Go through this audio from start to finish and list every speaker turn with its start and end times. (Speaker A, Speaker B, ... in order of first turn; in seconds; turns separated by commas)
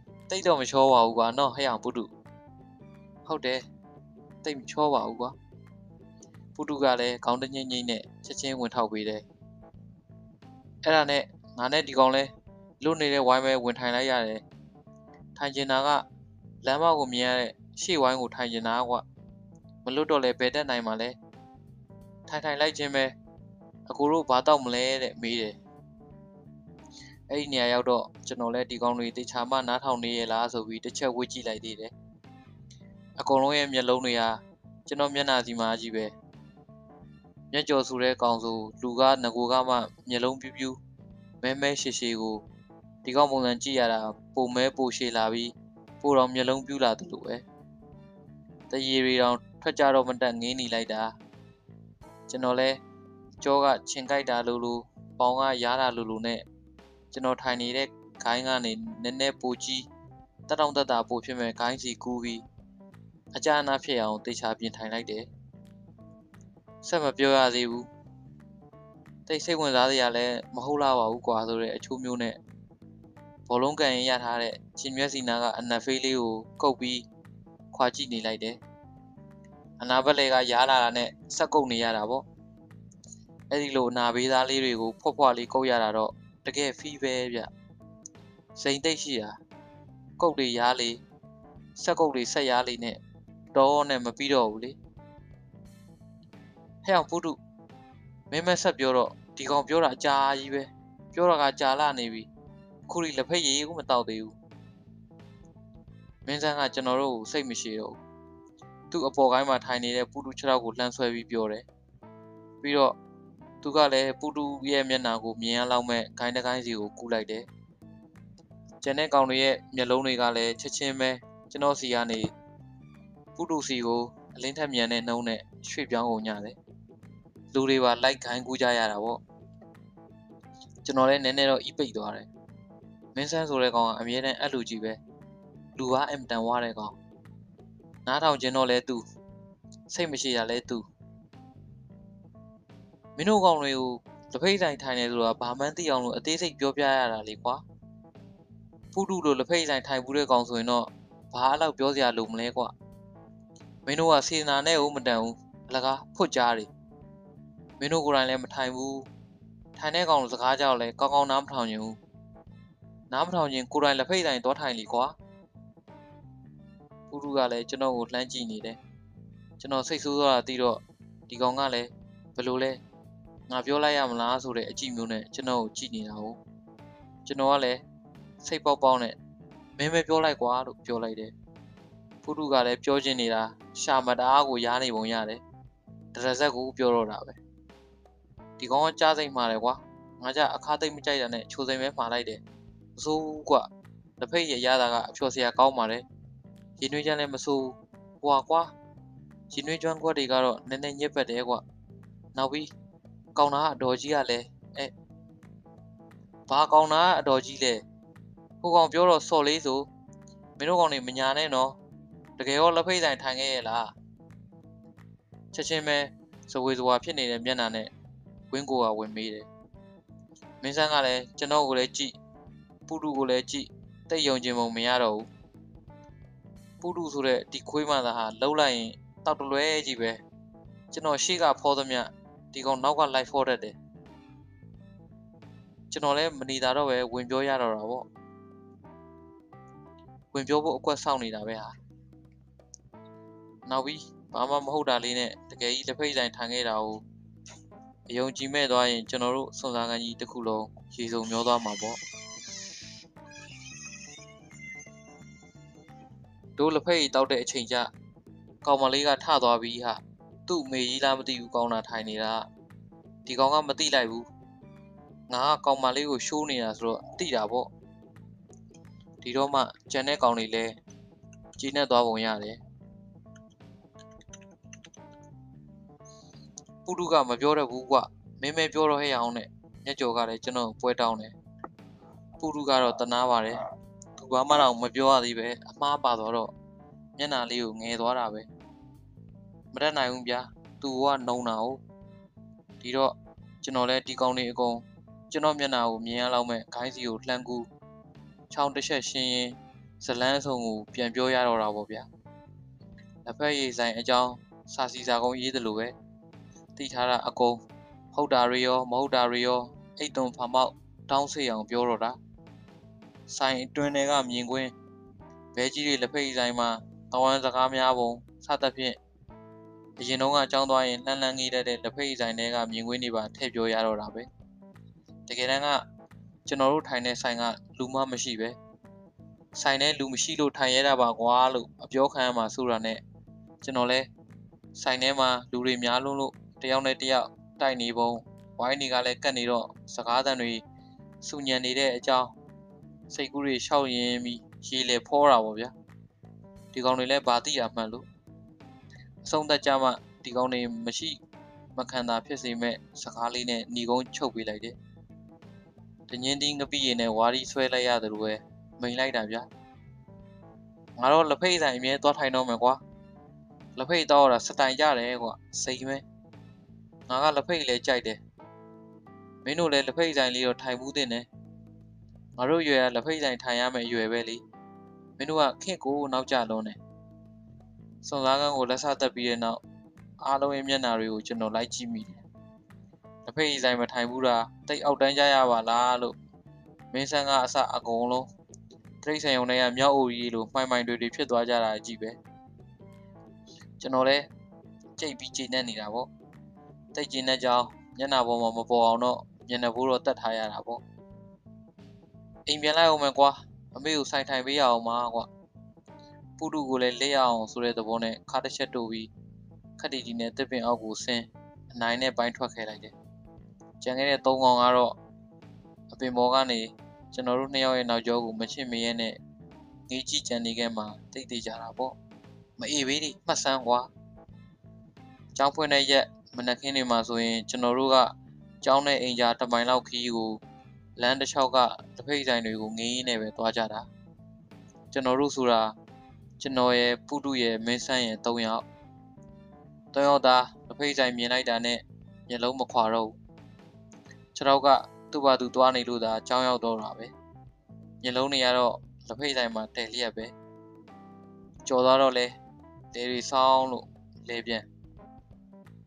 Speaker A: 0.3-2.1, Speaker A: 3.2-3.6, Speaker A: 4.4-5.3, Speaker A: 6.6-9.2, Speaker A: 10.8-12.3, Speaker A: 12.8-14.4, Speaker A: 15.3-16.0, Speaker A: 16.6-19.0, Speaker A: 19.8-21.2, Speaker A: 22.3-23.1, Speaker A: 23.9-25.6, Speaker A: 27.3-31.9, Speaker A: 33.2-36.1, Speaker A: 37.5-40.8, Speaker A: 41.4-42.4, Speaker A: 43.0-47.4, Speaker A: 48.7-51.1, Speaker A: 52.3-52.8, Speaker A: 53.4-56.4, Speaker A: 57.1-59.9, Speaker A: 60.5-62.5, Speaker A: 63.3-65.3, Speaker A: 66.8-67.9, Speaker A: 69.3-72.4, Speaker A: 73.5-77.1, Speaker A: 77.7-78.6, Speaker A: 79.8-82.2, Speaker A: 83.5-87.5, Speaker A: 88.6-89.4, Speaker A: 90.2-91.0, Speaker A: 91.8-93.0, Speaker A: 93.5-94.8, Speaker A: 96.8-97.4, Speaker A: 98.3-102.3, Speaker A: 102.9-104.3, Speaker A: 106.3-108.0, Speaker A: 108.9-111.7, Speaker A: 112.6-113.0, Speaker A: 113.6-117.5, Speaker A: 118.8-122.3, Speaker A: 123.4-126.6, Speaker A: 127.5-129.2, Speaker A: 130.8-132.3, Speaker A: 133.2-135.0, Speaker A: 135.8-137.0, Speaker A: 138.1-139.0, Speaker A: 139.9-140.8, Speaker A: 143.2-147.6, Speaker A: 148.9-152.7, Speaker A: 153.9-156.7, Speaker A: 157.8-159.1, Speaker A: 159.8-162.0, Speaker A: 163.1-165.2, Speaker A: 167.1-168.8, Speaker A: 169.6-172.8, Speaker A: 173.5-176.4, Speaker A: 177.2-177.8, Speaker A: 178.4-179.2, Speaker A: 179.8-181.3, Speaker A: 182.2-185.4, Speaker A: 186.1-187.4, Speaker A: 188.6-192.4, Speaker A: 193.0-196.1, Speaker A: 196.8-198.7, Speaker A: 199.5-201.6, Speaker A: 202.3-202.7, Speaker A: 203.3-204.9, Speaker A: 206.5-207.8, Speaker A: 208.6-209.9, Speaker A: 210.6-211.8, Speaker A: 212.4-213.9, Speaker A: 215.5-217.9, Speaker A: 218.5-219.5, Speaker A: 220.6-222.2, Speaker A: 222.9-225.3, Speaker A: 226.8-230.2, Speaker A: 230.9-233.8, Speaker A: 235.9-238.1, Speaker A: 240.3-241.7, Speaker A: 243.7-247.0, Speaker A: 248.1-252.0, Speaker A: 256.6-257.9, Speaker A: 258.6-262.5, Speaker A: 263.3-264.3, Speaker A: 265.3-267.7, Speaker A: 269.2-270.8, Speaker A: 271.6-272.6, Speaker A: 276.9-281.3, Speaker A: 282.4-283.6, Speaker A: 284.2-286.5, Speaker A: 287.2-288.5, Speaker A: 289.7-291.8, Speaker A: 292.8-297.7, Speaker A: 298.5-302.1, Speaker A: 303.2-305.9, Speaker A: 306.8-307.6, Speaker A: 308.1-312.2, Speaker A: 313.3-314.7, Speaker A: 315.5-319.0, Speaker A: 320.0-324.3, Speaker A: 325.3-325.8, Speaker A: 326.5-328.6, Speaker A: 329.5-333.0, Speaker A: 333.6-334.1, Speaker A: 334.8-340.6, Speaker A: 341.2-342.4, Speaker A: 343.1-345.7, Speaker A: 346.7-348.1, Speaker A: 349.2-351.2, Speaker A: 351.8-354.8, Speaker A: 356.1-359.5, Speaker A: 361.0-362.8, Speaker A: 363.8-366.0, Speaker A: 367.1-368.2, Speaker A: 369.4-371.3, Speaker A: 372.4-374.4, Speaker A: 375.2-376.8, Speaker A: 378.0-379.6, Speaker A: 380.2-382.2, Speaker A: 383.2-386.2, Speaker A: 386.9-388.3, Speaker A: 389.0-392.2, Speaker A: 393.8-394.3, Speaker A: 395.0-396.1, Speaker A: 396.9-400.8, Speaker A: 402.5-405.3, Speaker A: 406.4-409.1, Speaker A: 409.8-412.9, Speaker A: 413.8-414.9, Speaker A: 415.9-419.2, Speaker A: 419.9-422.0, Speaker A: 422.6-423.9, Speaker A: 425.4-430.4, Speaker A: 431.0-433.9, Speaker A: 434.9-435.7, Speaker A: 436.4-438.6, Speaker A: 439.9-443.2, Speaker A: 444.4-447.1, Speaker A: 448.0-450.3, Speaker A: 451.6-452.4, Speaker A: 452.9-454.6